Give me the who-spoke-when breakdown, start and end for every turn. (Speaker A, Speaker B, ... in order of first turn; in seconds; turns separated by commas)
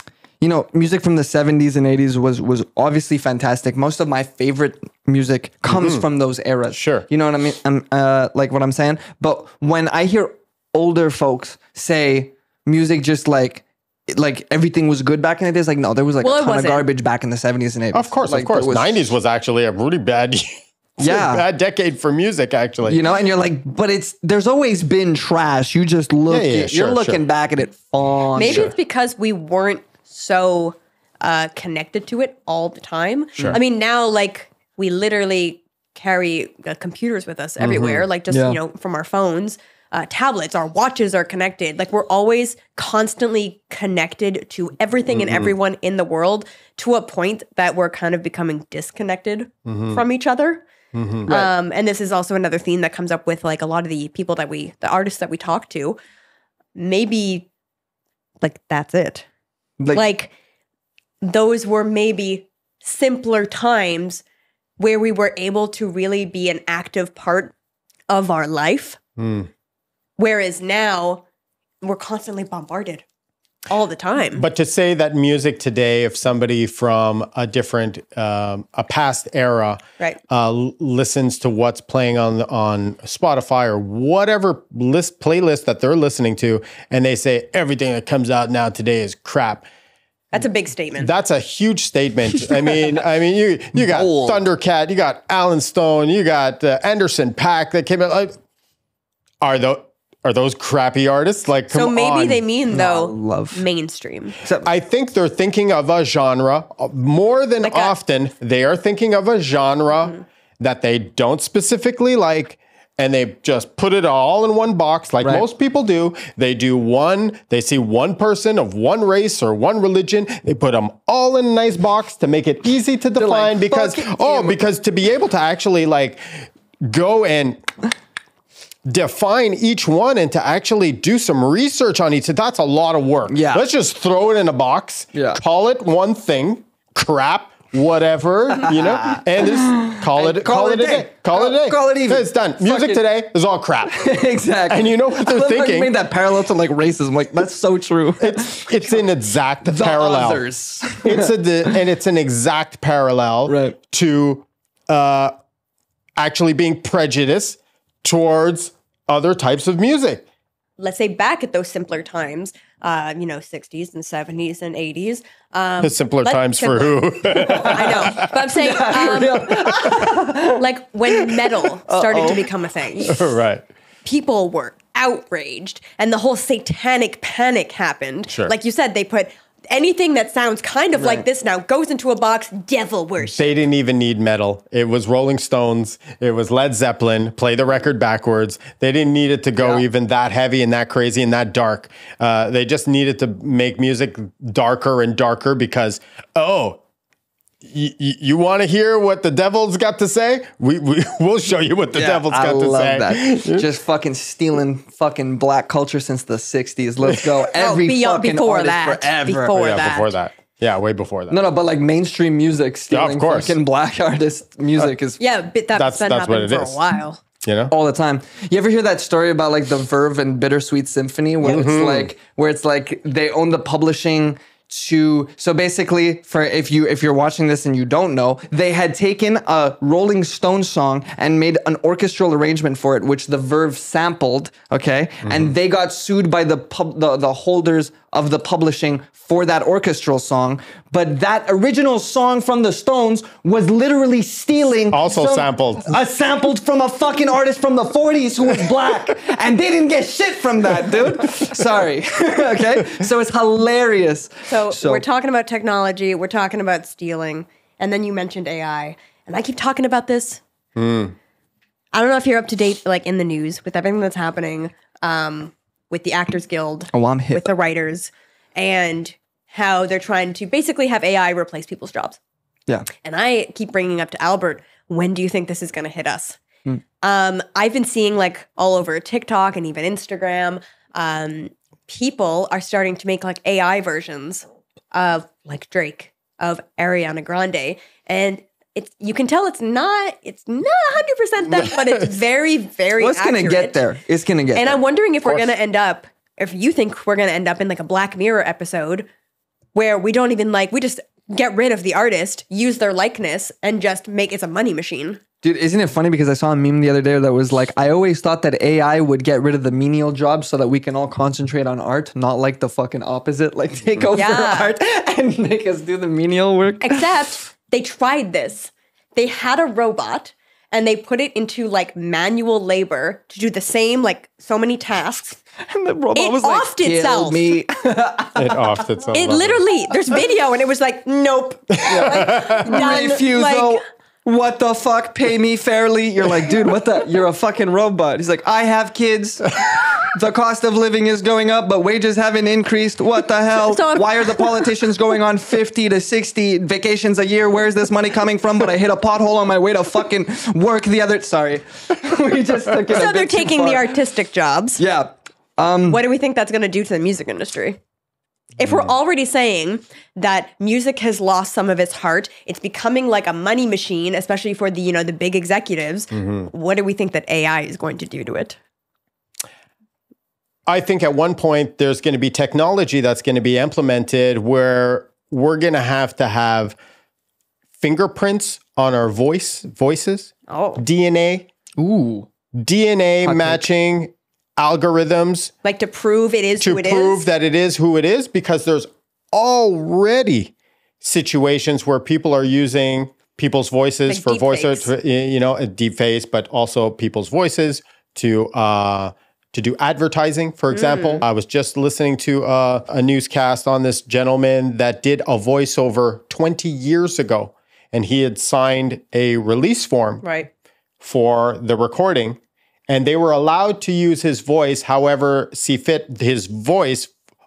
Speaker A: 0.4-19.0, Speaker B: 5.7-6.0, Speaker B: 6.7-7.0, Speaker C: 16.2-16.9, Speaker B: 17.9-23.0, Speaker A: 21.0-21.4, Speaker A: 22.9-28.7, Speaker B: 26.3-27.2, Speaker C: 28.3-50.6, Speaker B: 28.4-28.7, Speaker B: 37.6-38.1, Speaker A: 38.3-38.6, Speaker B: 45.1-45.5, Speaker B: 49.6-50.0, Speaker B: 50.9-51.3, Speaker C: 51.3-56.0, Speaker C: 56.7-57.5, Speaker C: 58.4-59.2, Speaker C: 59.9-60.3, Speaker C: 61.2-64.2, Speaker C: 64.8-67.5, Speaker C: 68.1-69.0, Speaker B: 69.2-69.5, Speaker C: 70.2-71.2, Speaker C: 71.8-73.0, Speaker C: 73.7-74.4, Speaker B: 74.3-89.6, Speaker C: 90.3-91.1, Speaker B: 91.0-98.3, Speaker A: 93.7-94.4, Speaker B: 99.4-102.4, Speaker C: 101.7-104.4, Speaker A: 102.7-103.6, Speaker A: 104.4-104.7, Speaker B: 104.6-127.6, Speaker C: 107.6-107.9, Speaker A: 123.2-124.6, Speaker B: 128.8-144.1, Speaker A: 133.3-133.6, Speaker A: 135.1-135.4, Speaker A: 138.7-143.0, Speaker A: 143.9-148.9, Speaker B: 144.7-145.9, Speaker B: 148.2-150.4, Speaker A: 149.6-151.8, Speaker B: 151.0-155.3, Speaker A: 153.5-153.8, Speaker B: 156.2-160.2, Speaker C: 160.8-170.0, Speaker B: 165.8-168.3, Speaker A: 167.3-172.5, Speaker B: 169.3-170.1, Speaker C: 170.6-173.2, Speaker B: 173.0-173.6, Speaker C: 174.0-183.5, Speaker A: 180.9-181.2, Speaker B: 183.3-196.8, Speaker A: 189.6-189.8, Speaker B: 197.6-203.7, Speaker A: 201.9-209.6, Speaker C: 207.5-210.1, Speaker B: 209.5-211.4, Speaker A: 211.3-215.2, Speaker B: 212.9-213.6, Speaker C: 215.2-217.2, Speaker B: 215.7-216.8, Speaker B: 217.4-217.7, Speaker A: 217.7-255.0, Speaker C: 221.4-221.7, Speaker B: 221.4-222.1, Speaker B: 235.2-235.5, Speaker B: 244.9-245.9, Speaker C: 254.5-260.4, Speaker B: 260.8-261.1, Speaker C: 261.9-272.2, Speaker A: 266.9-267.5, Speaker C: 273.0-276.4, Speaker C: 277.0-293.8, Speaker A: 293.0-295.4, Speaker C: 294.5-299.1, Speaker C: 299.7-305.2, Speaker A: 305.4-317.1, Speaker C: 314.1-314.7, Speaker C: 316.8-325.4, Speaker A: 325.6-328.8, Speaker C: 326.1-327.6, Speaker B: 328.4-329.6, Speaker C: 329.1-333.8, Speaker B: 331.8-332.9, Speaker A: 331.9-353.9, Speaker C: 343.7-344.9, Speaker C: 352.9-354.8, Speaker A: 354.8-356.0, Speaker C: 355.9-357.8, Speaker C: 358.6-368.6, Speaker B: 366.1-366.5, Speaker B: 370.7-376.8, Speaker B: 377.8-381.5, Speaker C: 380.5-380.8, Speaker A: 381.8-382.3, Speaker B: 382.5-385.5, Speaker A: 383.2-383.6, Speaker C: 385.6-387.3, Speaker B: 386.6-410.2, Speaker C: 394.1-394.9, Speaker C: 400.7-401.2, Speaker C: 410.2-410.5, Speaker B: 411.0-417.1